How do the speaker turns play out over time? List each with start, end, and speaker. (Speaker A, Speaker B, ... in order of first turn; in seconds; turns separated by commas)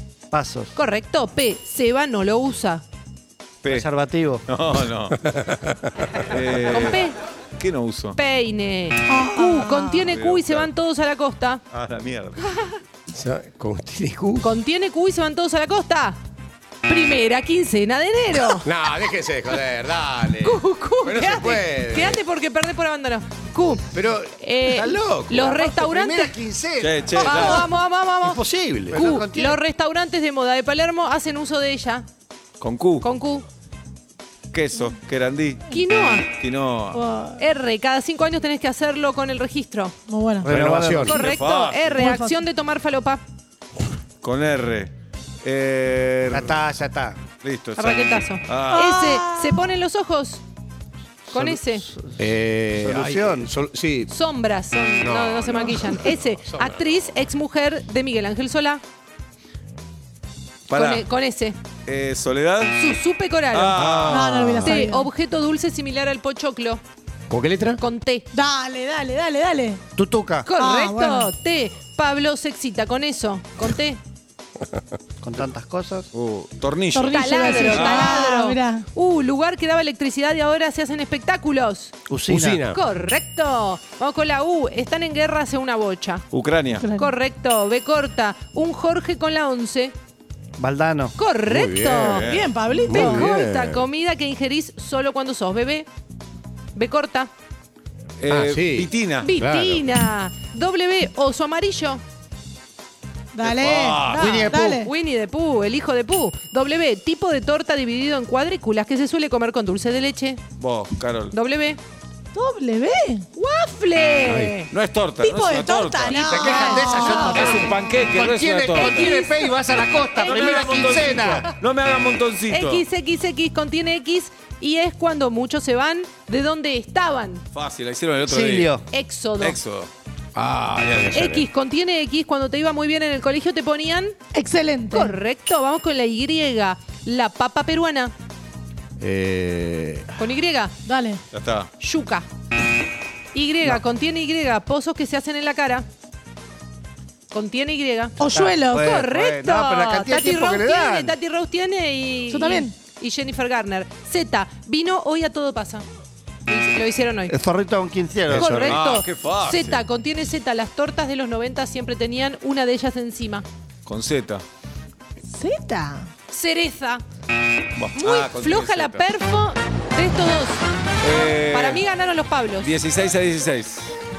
Speaker A: 0.3-0.7, Speaker B: 0.7-2.8, Speaker C: 3.6-3.9, Speaker A: 3.7-4.4, Speaker C: 4.5-5.2, Speaker D: 5.2-5.7, Speaker C: 6.2-7.0, Speaker B: 6.7-7.1, Speaker C: 7.6-8.2, Speaker B: 8.1-11.6, Speaker E: 9.1-10.1, Speaker C: 10.1-10.7, Speaker C: 11.7-12.5, Speaker D: 13.1-14.6, Speaker B: 14.4-16.2, Speaker B: 16.8-18.7, Speaker D: 18.6-22.2, Speaker B: 20.4-26.3, Speaker D: 23.9-25.5, Speaker A: 25.4-27.7, Speaker C: 26.8-27.7, Speaker B: 27.2-32.0, Speaker A: 28.2-29.6, Speaker C: 32.6-33.1, Speaker B: 33.0-33.5, Speaker C: 34.5-35.7, Speaker B: 35.7-36.3, Speaker C: 36.3-37.0, Speaker E: 36.9-37.4, Speaker B: 37.4-39.9, Speaker E: 40.1-40.5, Speaker A: 40.4-41.2, Speaker D: 40.5-41.2, Speaker B: 41.0-43.2, Speaker C: 41.1-42.0, Speaker E: 42.0-42.4, Speaker C: 44.2-44.9, Speaker C: 45.4-46.6, Speaker A: 46.3-47.2, Speaker C: 47.4-49.0, Speaker B: 47.8-50.4, Speaker E: 48.7-49.6, Speaker B: 51.3-51.8, Speaker A: 51.3-52.1, Speaker D: 52.2-54.1, Speaker A: 52.8-53.5, Speaker B: 54.1-58.8, Speaker D: 55.0-57.1, Speaker C: 60.7-61.0, Speaker B: 60.7-61.6, Speaker C: 61.9-62.8, Speaker B: 62.7-63.8, Speaker C: 63.5-64.4, Speaker D: 63.7-64.8, Speaker E: 64.1-65.1, Speaker B: 64.6-66.8, Speaker D: 67.3-67.8, Speaker B: 67.8-68.3, Speaker E: 68.3-69.8, Speaker A: 70.0-70.5, Speaker B: 70.5-74.0, Speaker E: 70.6-71.3, Speaker A: 75.2-76.1, Speaker C: 76.1-78.2, Speaker E: 76.9-78.8, Speaker B: 77.1-81.9, Speaker A: 82.1-82.6, Speaker D: 82.3-82.8, Speaker B: 82.7-86.2, Speaker C: 86.3-86.9, Speaker E: 86.8-87.1, Speaker B: 86.9-89.9, Speaker A: 90.6-91.1, Speaker B: 91.2-95.9, Speaker D: 91.5-92.2, Speaker C: 92.0-92.5, Speaker E: 92.3-93.3, Speaker D: 92.9-93.8, Speaker B: 96.7-97.3, Speaker C: 98.2-99.3, Speaker D: 98.3-99.8, Speaker B: 99.2-102.0, Speaker E: 103.3-104.9, Speaker C: 103.4-104.5, Speaker B: 104.0-110.4, Speaker A: 104.1-104.8, Speaker C: 110.6-111.3, Speaker B: 111.3-111.8, Speaker E: 112.3-113.2, Speaker B: 113.3-114.7, Speaker D: 114.2-114.6, Speaker C: 114.7-119.2, Speaker E: 115.2-117.8, Speaker A: 116.1-121.5, Speaker B: 117.0-117.6, Speaker B: 118.7-120.5, Speaker C: 120.1-122.8, Speaker B: 122.5-127.4, Speaker C: 127.5-128.7, Speaker A: 128.2-128.8, Speaker B: 128.9-129.6, Speaker C: 129.4-129.9, Speaker D: 130.3-131.4, Speaker C: 130.7-131.3, Speaker B: 131.1-134.2, Speaker E: 134.3-134.9, Speaker B: 134.9-138.1, Speaker D: 139.0-140.2, Speaker B: 140.2-140.7, Speaker E: 140.9-141.2, Speaker C: 141.3-141.7, Speaker B: 141.8-142.3, Speaker B: 143.3-145.9, Speaker B: 147.3-148.2, Speaker E: 148.2-148.6, Speaker A: 148.3-151.2, Speaker B: 148.7-155.8, Speaker E: 152.3-152.7, Speaker B: 156.5-157.3, Speaker A: 157.3-158.8, Speaker D: 158.3-158.6, Speaker B: 158.3-163.4, Speaker C: 158.7-159.8, Speaker C: 163.8-164.4, Speaker E: 165.3-166.1, Speaker B: 166.3-167.0, Speaker C: 167.7-169.1, Speaker B: 168.0-170.6, Speaker C: 171.0-171.8, Speaker B: 171.5-172.7, Speaker C: 172.6-173.9